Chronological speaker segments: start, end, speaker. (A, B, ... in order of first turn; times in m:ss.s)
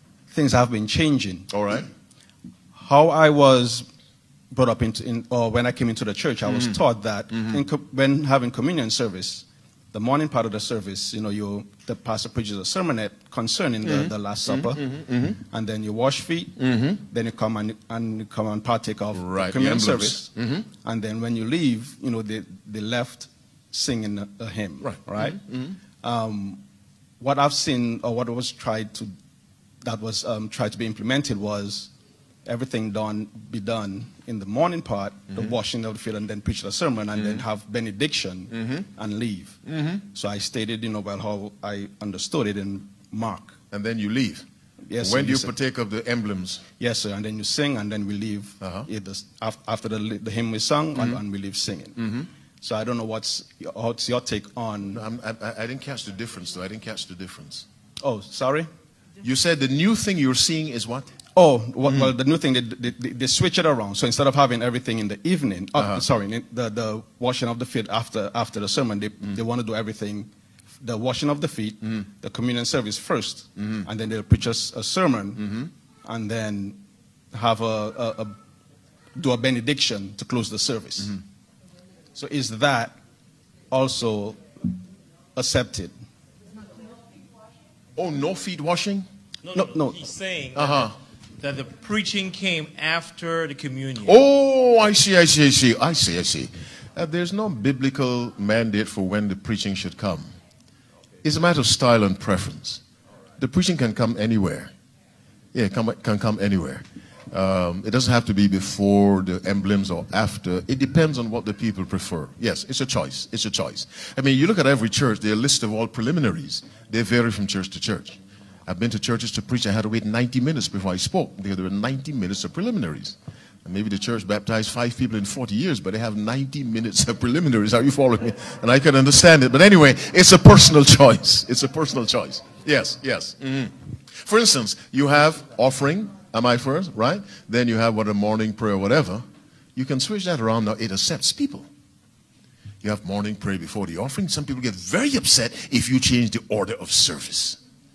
0:00.3-0:01.5 A
0:01.5-0:01.9 B
0:02.7-0:03.9 A
0:04.5-0:25.4 A
0:14.8-0:15.3 B
0:19.1-0:20.6 B
0:25.2-0:25.7 B
0:26.0-0:26.6 A
0:27.2-0:29.1 A
0:29.8-0:31.9 A
0:32.4-0:43.6 A
0:43.7-0:44.4 B
0:44.9-0:45.5 A
0:45.0-0:46.7 B
0:46.8-0:55.0 A
0:48.6-0:48.9 B
0:54.9-0:57.7 B
0:58.0-0:58.7 A
0:59.2-1:01.1 B
1:01.4-1:10.3 A
1:10.8-1:16.8 A
1:17.3-1:18.4 A
1:19.2-1:21.2 A
1:22.2-1:23.0 A
1:23.7-1:24.4 A
1:25.4-1:25.9 A
1:28.0-1:29.1 B
1:29.5-1:34.2 C
1:29.5-1:30.0 A
1:30.6-1:31.0 B
1:34.0-1:40.3 B
1:41.2-1:42.8 B
1:43.4-1:44.7 B
1:45.5-2:19.2 B
2:19.8-2:21.7 B
2:22.8-2:27.6 B